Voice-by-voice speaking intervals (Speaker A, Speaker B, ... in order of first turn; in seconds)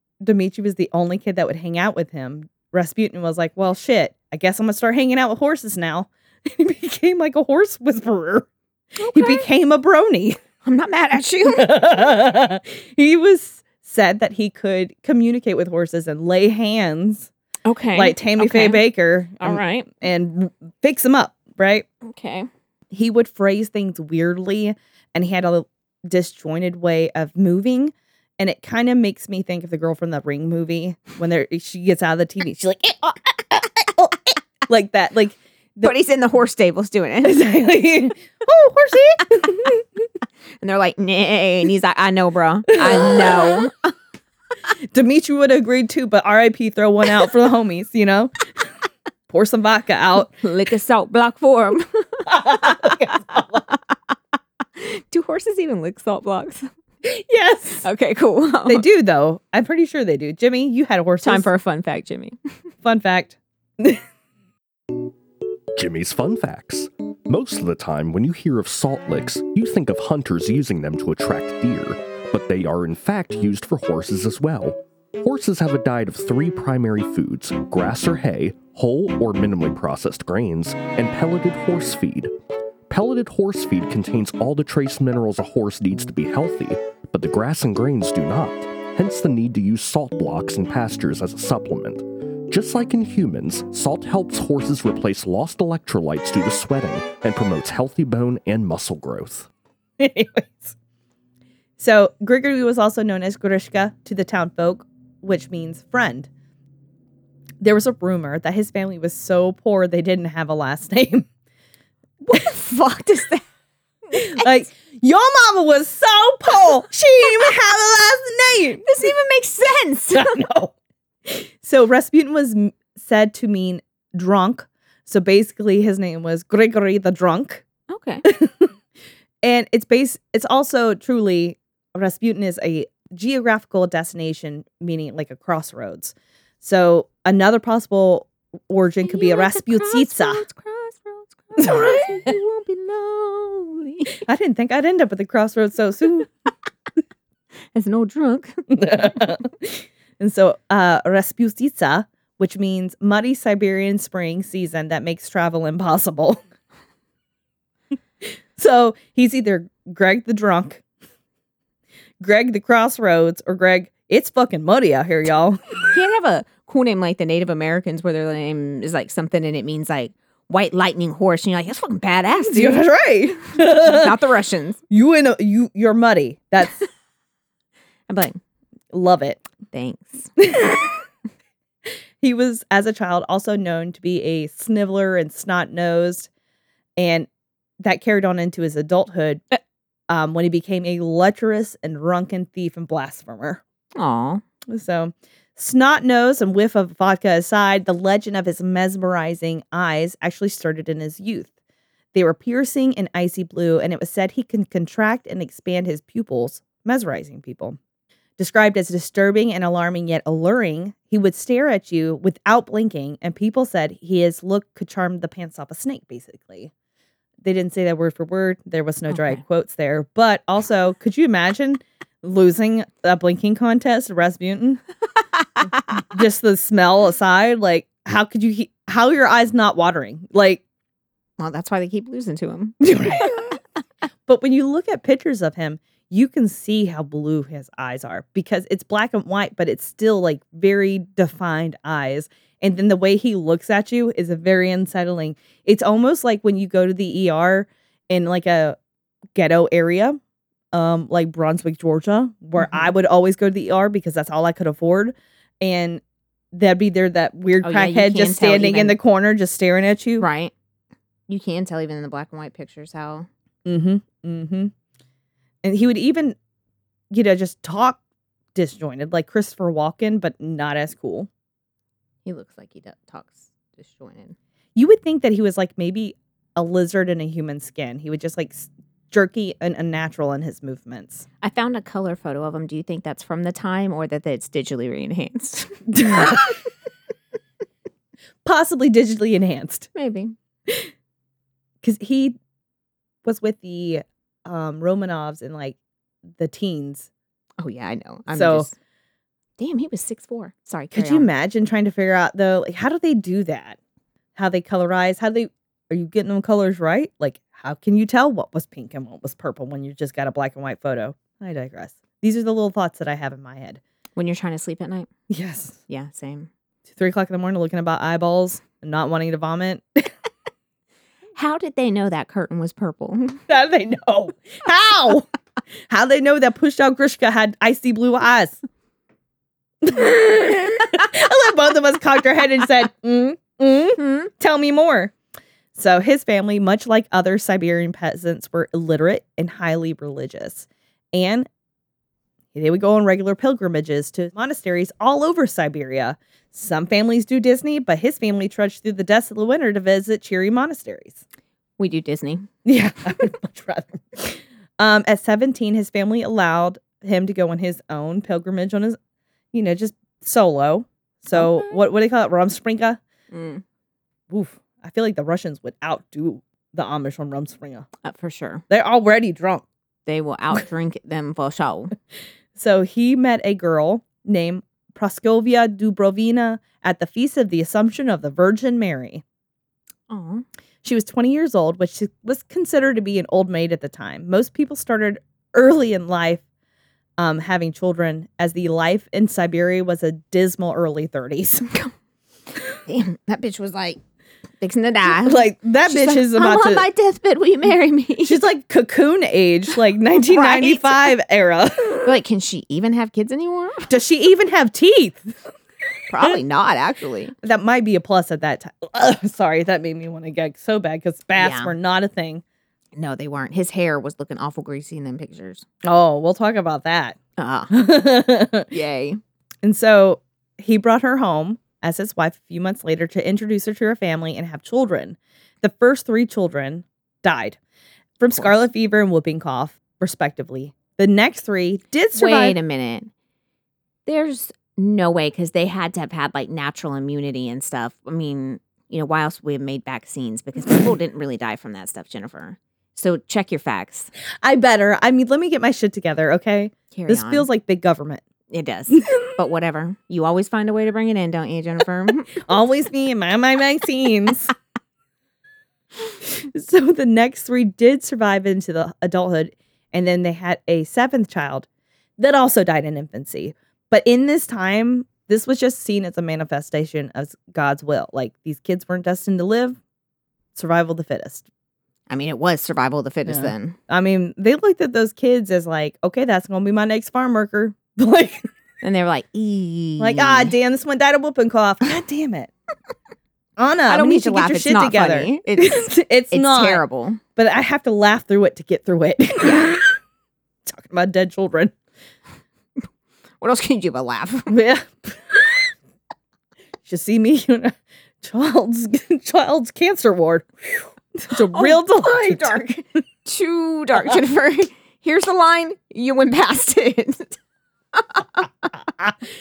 Speaker A: 0.2-8.5, 9.1-10.4, 11.4-17.3, 17.9-21.9, 22.9-36.0, 37.2-39.8, 42.7-43.5, 44.9-48.5, 49.3-50.3, 52.3-53.6, 57.0-57.9, 58.7-61.5, 62.8-64.0, 100.0-100.8, 101.8-106.3, 107.6-111.3, 114.1-118.9, 120.1-120.7, 121.3-127.7, 128.2-128.7, 129.4-140.4, 141.6-142.2, 144.2-146.3, 148.7-156.4, 158.6-160.8, 162.2-165.8, 172.4-174.1, 174.9-176.9, 178.9-179.4, 180.4-181.0, 182.2-186.3, 187.0-187.3, 187.8-189.4, 190.1-193.6, 194.7-201.5, 202.1-207.8, 208.4-216.7, 217.4-224.8, 226.0-230.6, 232.8-233.5, 234.3-248.8, 249.3-250.2, 250.7-256.0, 256.5-260.2, 263.6-264.7, 265.6-266.4, 267.1-268.0, 268.6-271.3, 274.8-281.3, 285.9-286.5, 288.4-289.9, 291.8-292.4, 293.2-295.8, 296.4-297.1, 298.3-298.7, 300.9-303.8, 304.4-313.8, 315.3-315.8, 316.9-320.1, 323.5-325.3, 325.9-328.6, 329.8-335.1, 335.8-341.5, 342.5-351.2, 352.6-359.0, 359.5-363.0, 364.3-367.9, 368.7-369.7, 372.6-379.2, 380.8-386.4, 387.2-391.7, 395.1-396.9, 398.2-402.1, 403.9-405.3, 407.4-412.4, 415.8-417.2, 417.7-418.7, 419.6-427.6, 428.2-432.6, 444.4-448.2, 449.0-449.3, 452.4-454.5, 456.2-469.8, 470.6-471.5, 473.3-478.5, 480.0-482.5, 483.6-486.8, 487.4-489.9, 490.7-491.7, 494.5-495.7, 496.9-503.0
Speaker B: 9.0-9.5, 10.6-11.9, 17.6-18.9, 19.4-19.9, 22.0-22.5, 35.8-37.4, 40.6-43.9, 50.3-53.0, 54.8-56.7, 57.8-58.9, 61.2-62.4, 112.2-113.4, 114.1-114.5, 118.8-120.3, 127.9-128.2, 139.1-144.2, 147.7-148.6, 165.9-172.8, 173.6-174.8, 178.1-178.4, 179.7-180.3, 194.0-194.4, 219.1-219.4, 231.4-233.4, 252.6-252.9, 257.6-259.0, 260.2-260.5, 261.3-263.3, 272.2-274.4, 281.4-286.4, 289.9-290.4, 297.6-298.7, 299.6-301.3, 314.2-315.1, 315.9-316.5, 321.4-323.4, 334.0-334.3, 351.8-352.5, 361.3-361.8, 363.3-363.6, 368.0-368.6, 370.1-371.9, 380.1-380.4, 392.9-394.0, 394.6-398.4, 400.2-401.1, 402.1-403.9, 406.1-407.3, 411.4-411.7, 412.9-415.6, 417.4-417.7, 418.7-419.2, 432.1-433.1, 434.1-444.1, 446.9-447.5, 448.5-452.3, 472.1-473.8, 478.8-480.6, 483.9-487.2, 493.4-494.5, 501.5-502.6, 503.2-507.4, 507.9-508.4
Speaker C: 65.8-82.3, 82.9-99.5